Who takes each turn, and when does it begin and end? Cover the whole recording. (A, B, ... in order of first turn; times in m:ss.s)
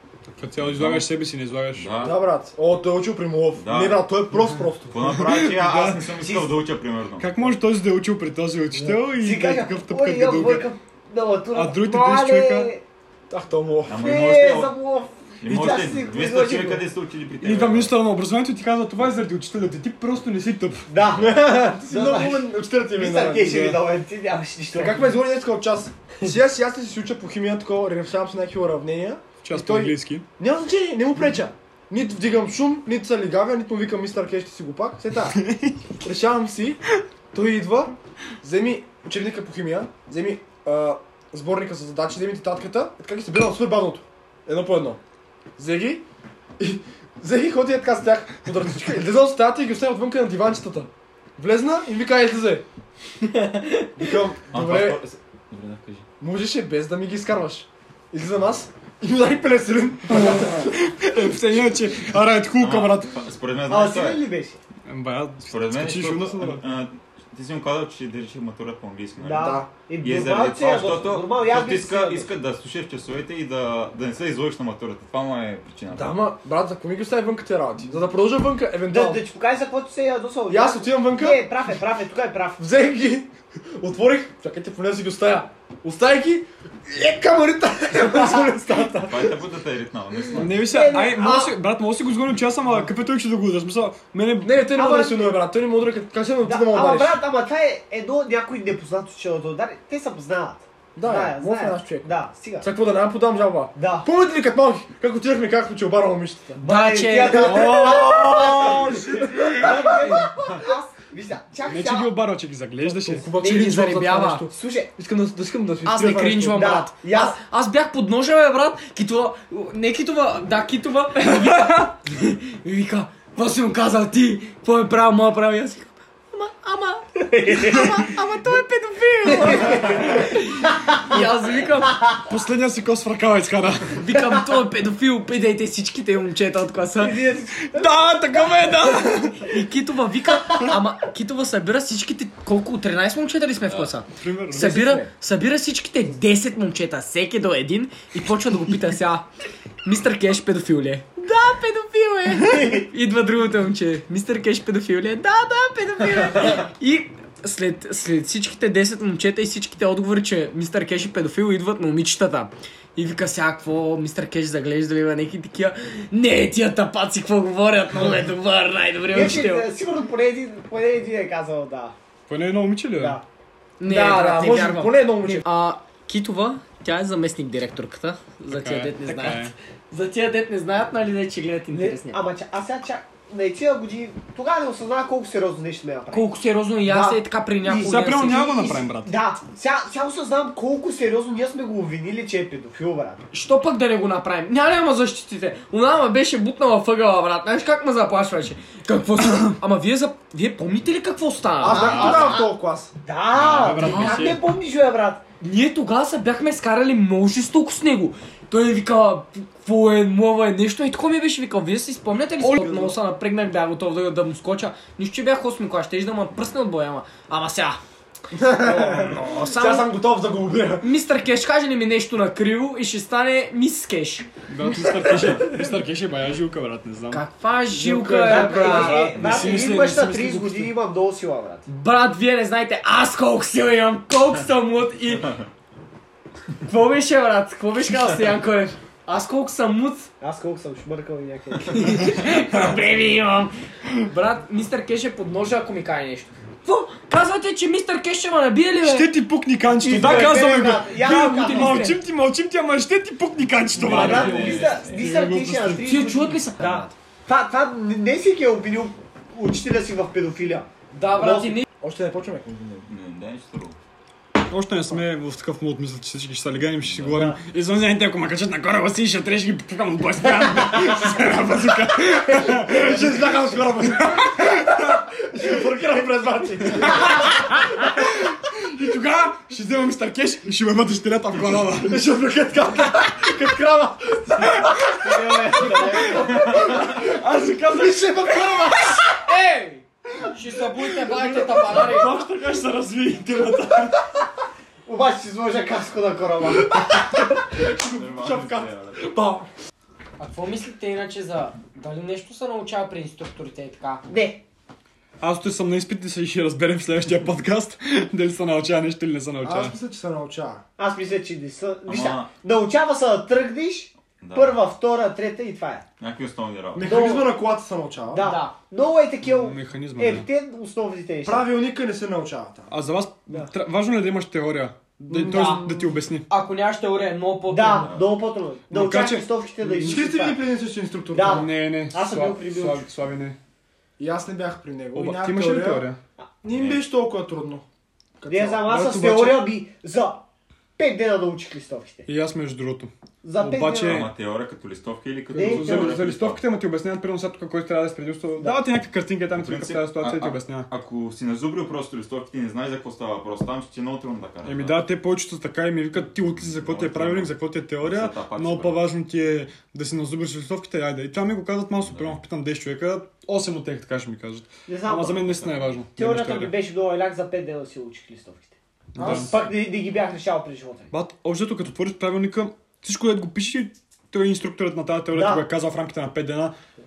0:00.3-0:01.9 A
0:00.4-0:01.1 B
0:01.7-0:02.2 B
0:02.0-0:05.0 C
0:03.5-0:04.0 B
0:04.9-0:07.4 B
0:05.0-0:06.1 A
0:06.2-0:06.6 D
0:07.2-0:10.7 A
0:09.1-0:12.8 D
0:11.5-0:12.7 A
0:13.3-0:14.1 C
0:13.8-0:14.7 B
0:14.0-0:16.8 D
0:15.4-0:17.9 B
0:17.4-0:20.9 A
0:20.9-0:25.1 D
0:21.0-0:21.3 B
0:21.2-0:23.8 C
0:24.7-0:35.4 C
0:29.4-0:30.2 A
0:35.4-0:35.8 A
0:36.0-0:36.8 C
0:37.3-0:45.0 C
0:45.6-0:46.0 C
0:46.6-0:52.6 C
0:53.3-0:53.9 E
0:54.0-0:55.0 C
0:54.5-0:56.1 B
0:56.2-1:00.8 C
1:00.1-1:03.2 A
1:02.5-1:04.2 B
1:03.7-1:04.6 D
1:04.9-1:06.6 A
1:05.5-1:16.2 B
1:09.2-1:12.3 D
1:09.4-1:09.7 C
1:15.9-1:19.2 C
1:18.9-1:22.6 D
1:20.5-1:21.5 C
1:22.6-1:29.3 C
1:28.0-1:28.9 D
1:29.1-1:30.6 B
1:30.4-1:34.6 A
1:30.6-1:31.5 D
1:34.4-1:37.2 C
1:34.7-1:35.4 D
1:36.4-1:42.7 D
1:41.0-1:42.1 C
1:42.6-1:46.6 C
1:43.8-1:44.1 D
1:46.6-1:48.0 E
1:46.6-1:52.1 D
1:47.4-1:49.9 A
1:47.7-1:48.8 C
1:49.4-1:50.3 C
1:51.6-1:53.3 A
1:52.8-1:56.7 C
1:53.4-1:54.4 E
1:54.5-1:54.9 D
1:55.8-2:11.9 E
1:56.4-1:57.4 D
2:07.2-2:08.1 D
2:09.3-2:11.3 D
2:11.8-2:12.2 D
2:12.3-2:14.1 A
2:13.9-2:17.2 E
2:17.0-2:19.3 D
2:17.6-2:19.5 A
2:19.4-2:29.3 E
2:23.6-2:23.9 B
2:24.2-2:25.0 A
2:24.8-2:25.1 C
2:29.8-2:49.7 E
2:32.4-2:32.9 D
2:49.1-2:51.9 D
2:52.3-2:53.2 A
2:53.0-2:53.2 D
2:53.8-3:02.2 E
2:53.8-2:55.5 C
2:58.5-2:59.5 A
3:01.7-3:13.2 D
3:06.1-3:08.4 E
3:07.8-3:09.2 A
3:13.3-3:22.4 E
3:21.6-3:22.9 C
3:21.6-3:22.5 D
3:23.0-3:25.2 D
3:23.3-3:24.5 A
3:23.8-3:24.3 E
3:25.4-3:37.8 E
3:32.4-3:33.0 C
3:38.3-3:40.9 C
3:39.4-3:39.9 E
3:40.8-3:44.3 E
3:44.5-3:47.2 A
3:47.1-3:49.0 E
3:47.7-3:49.0 C
3:48.2-3:51.6 D
3:48.6-3:50.7 A
3:49.2-3:49.6 B
3:51.6-3:55.3 E
3:56.6-4:00.1 E
4:00.2-4:02.3 D
4:01.6-4:09.1 E
4:08.8-4:16.0 A
4:09.7-4:11.9 D
4:10.0-4:10.4 E
4:11.0-4:12.0 E
4:13.8-4:21.6 D
4:13.8-4:15.0 B
4:15.8-4:16.9 E
4:20.9-4:21.6 E
4:21.8-4:22.9 C
4:22.9-4:23.8 B
4:24.5-4:34.8 A
4:26.8-4:27.3 B
4:27.1-4:27.4 D
4:32.5-4:37.3 C
4:36.8-4:42.0 A
4:41.8-4:44.8 C
4:44.5-4:49.0 A
4:44.9-4:46.7 D
4:45.5-4:47.1 C
4:47.7-4:49.0 C
4:49.2-4:52.2 E
4:50.9-4:54.0 A
4:54.8-4:57.1 D
4:56.7-4:59.5 C
4:57.6-4:59.1 B
5:00.2-5:04.0 E
5:04.1-5:04.4 D
5:05.2-5:09.8 A
5:09.4-5:10.6 C
5:10.8-5:15.8 D
5:11.8-5:12.3 B
5:14.2-5:14.6 B
5:16.0-5:17.0 B
5:16.7-5:18.2 C
5:16.8-5:17.3 D
5:18.1-5:21.5 D
5:18.2-5:18.5 E
5:19.2-5:20.3 A
5:21.2-5:22.7 C
5:22.7-5:26.3 A
5:25.1-5:25.9 C
5:25.3-5:25.6 E
5:26.3-5:27.9 E
5:27.5-5:30.4 D
5:27.8-5:28.1 B
5:28.7-5:30.0 A
5:29.8-5:31.5 C
5:31.1-5:32.9 D
5:31.2-5:33.4 A
5:34.0-5:35.8 C
5:34.9-5:36.0 A
5:36.4-5:37.6 C
5:36.5-5:36.8 B
5:38.2-5:39.1 C
5:38.3-5:40.2 D
5:38.7-5:39.4 A
5:40.8-5:42.1 D
5:42.0-5:44.1 A
5:43.2-5:44.1 D
5:43.8-5:46.4 B
5:45.3-5:46.0 D
5:45.3-5:50.7 A
5:49.3-5:54.8 B
5:54.4-6:06.5 A
5:56.2-5:58.8 B
6:01.8-6:02.2 B
6:04.7-6:05.2 D
6:05.1-6:05.8 B
6:06.0-6:10.9 D
6:08.9-6:09.3 A
6:09.0-6:09.4 C
6:10.9-6:16.5 A
6:15.1-6:15.4 D